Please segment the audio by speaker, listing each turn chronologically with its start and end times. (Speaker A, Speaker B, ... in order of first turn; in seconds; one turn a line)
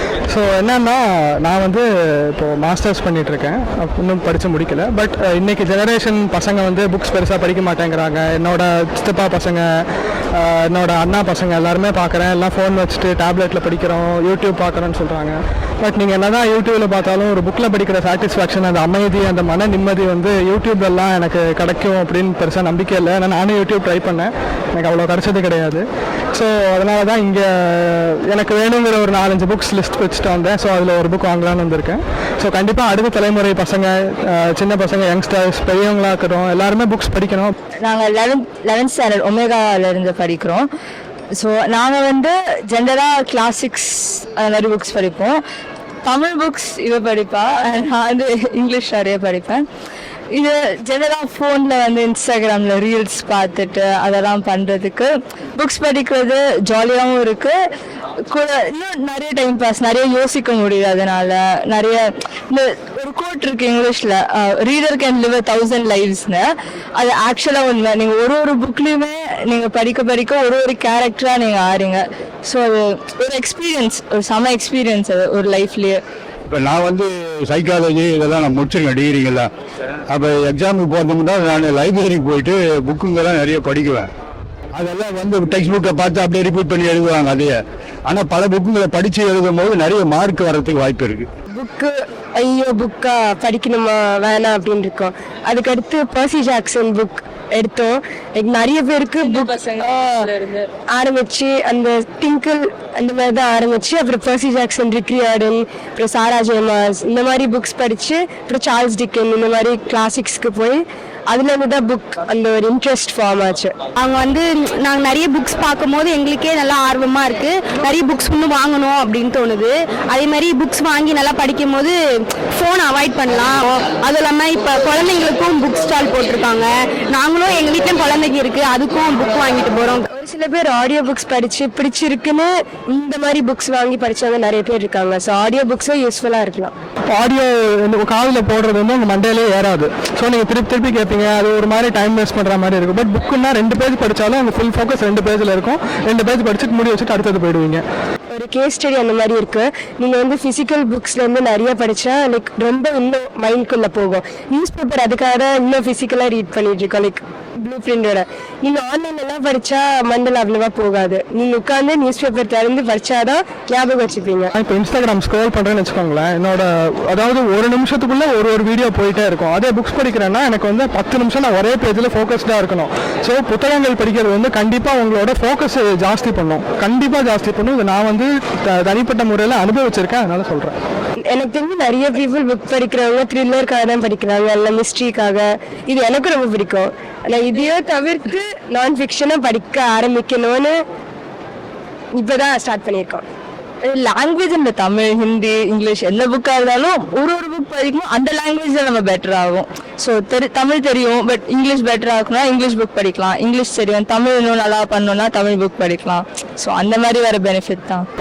Speaker A: 0.3-37.5
Speaker B: 37.8-40.6
Speaker B: 41.4-45.4
Speaker B: 46.0-49.6
Speaker B: 50.3-57.6
Speaker B: 58.3-76.0
Speaker C: 76.5-79.5
Speaker C: 80.1-84.1
Speaker C: 84.8-91.3
Speaker D: 91.5-113.8
Speaker E: 114.0-122.0
Speaker E: 122.5-130.1
Speaker D: 130.1-136.7
Speaker A: 137.1-147.8
Speaker D: 148.3-164.5
Speaker A: 164.6-180.8
Speaker D: 181.3-190.8
Speaker D: 192.2-193.2
Speaker B: 193.9-208.1